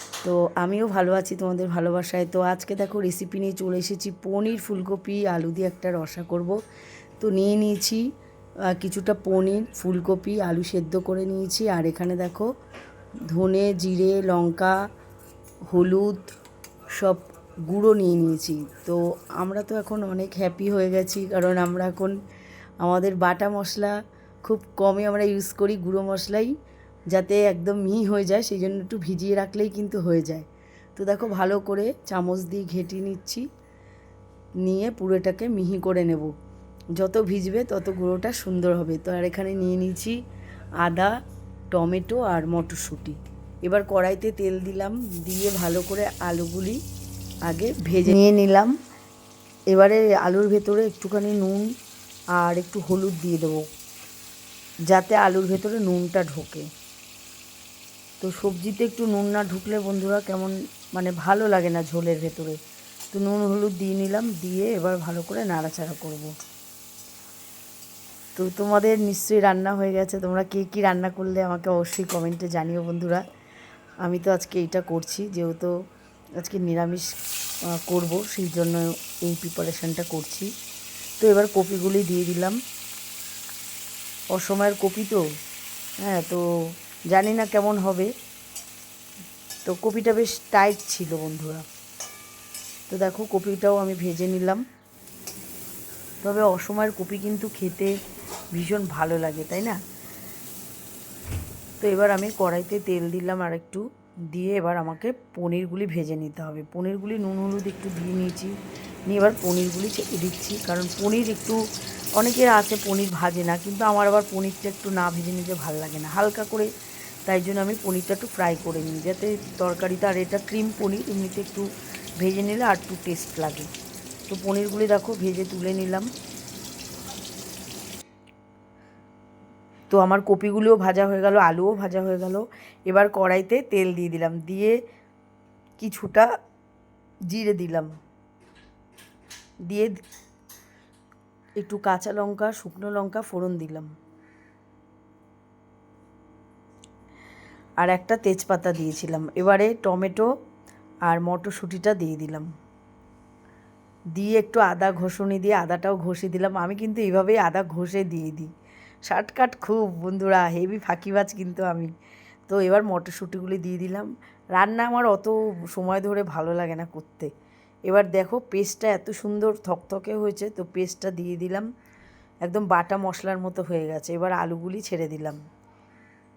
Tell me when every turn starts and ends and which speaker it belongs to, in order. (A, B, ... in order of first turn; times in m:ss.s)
0:00.2-0:06.6 A
0:07.2-0:08.0 A
0:08.7-0:12.5 A
0:13.3-0:14.8 A
0:15.7-0:16.3 A
0:16.9-0:22.2 A
0:22.8-0:26.5 A
0:27.1-0:33.5 A
0:34.6-0:36.3 A
0:37.0-0:40.2 A
0:40.8-0:41.1 A
0:41.7-0:46.8 A
0:47.5-0:48.7 A
0:49.7-0:51.7 A
0:52.4-0:53.7 A
0:54.9-0:56.7 A
0:58.2-1:02.6 A
1:03.1-1:06.3 A
1:08.4-1:13.2 A
1:14.0-1:15.7 A
1:16.4-1:17.1 A
1:17.7-1:20.5 A
1:21.2-1:22.6 A
1:24.3-1:25.2 A
1:26.0-1:26.4 A
1:27.1-1:28.1 A
1:29.7-1:31.6 A
1:32.9-1:34.6 A
1:36.2-1:38.0 A
1:38.5-1:39.8 A
1:41.8-1:48.6 A
1:49.1-1:51.6 A
1:52.2-1:56.7 A
1:57.3-2:03.7 A
2:04.3-2:06.1 A
2:09.9-2:14.8 A
2:15.8-2:16.3 A
2:17.3-2:17.9 A
2:19.7-2:20.0 A
2:21.6-2:23.9 A
2:27.8-2:30.3 A
2:31.1-2:32.5 A
2:34.2-2:38.5 A
2:39.1-2:41.9 A
2:42.5-2:47.3 A
2:47.9-2:51.7 A
2:52.4-2:55.4 A